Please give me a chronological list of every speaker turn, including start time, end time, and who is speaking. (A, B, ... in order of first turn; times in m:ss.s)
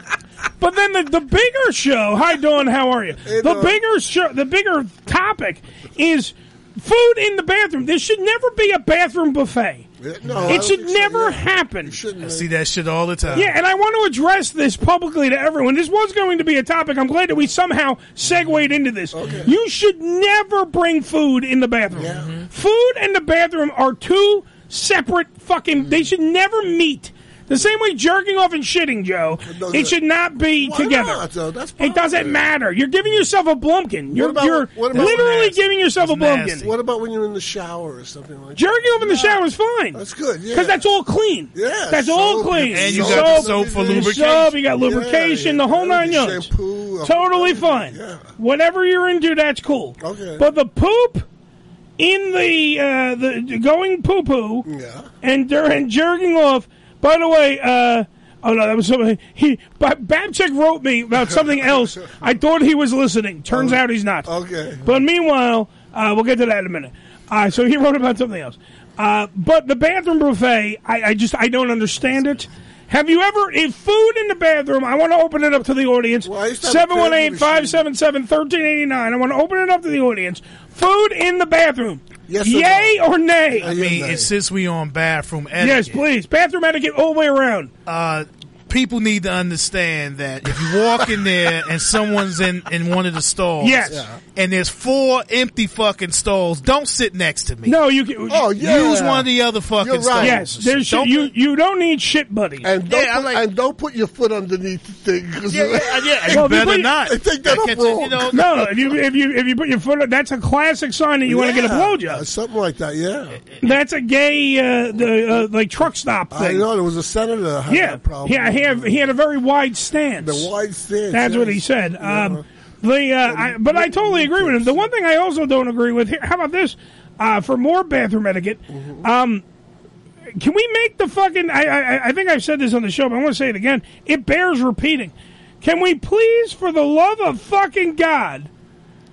0:00.6-0:09.8 A
0:03.2-0:03.8 B
0:10.0-0:12.5 B
0:10.3-0:10.6 C
0:10.4-0:12.0 A
0:12.2-0:13.5 C
0:13.2-0:13.5 B
0:13.3-0:31.2 A
0:19.1-0:19.5 B
0:22.0-0:22.3 B
0:22.1-0:22.5 C
0:29.4-0:30.0 B
0:30.6-0:32.4 B
0:31.8-0:36.7 A
0:34.1-0:35.6 B
0:34.9-0:36.7 C
0:36.6-0:39.4 B
0:38.6-0:40.0 A
0:39.9-0:40.8 B
0:40.5-0:46.5 A
0:41.5-0:48.3 B
0:42.7-0:44.6 C
0:47.0-0:51.3 A
0:50.0-0:50.4 B
0:52.0-0:54.6 A
0:54.6-0:55.1 B
0:55.2-1:04.3 A
1:01.3-1:01.9 B
1:03.5-1:04.8 B
1:04.8-1:23.7 A
1:16.2-1:17.8 B
1:22.3-1:23.0 B
1:23.6-1:24.3 B
1:23.6-1:26.0 C
1:25.6-1:27.7 A
1:27.8-1:37.8 C
1:33.6-1:34.0 A
1:33.9-1:34.2 B
1:37.6-1:38.6 A
1:38.3-1:40.4 B
1:38.6-1:41.3 C
1:40.2-1:42.7 A
1:42.6-1:48.3 B
1:42.8-1:43.4 C
1:45.5-1:48.6 C
1:46.3-1:46.9 A
1:48.3-1:52.2 A
1:51.2-1:53.4 B
1:53.6-1:56.6 A
1:56.3-1:59.1 B
1:57.7-2:00.5 A
2:00.2-2:02.4 B
2:01.1-2:09.4 A
2:03.2-2:04.9 B
2:08.7-2:09.1 B
2:10.4-2:18.5 A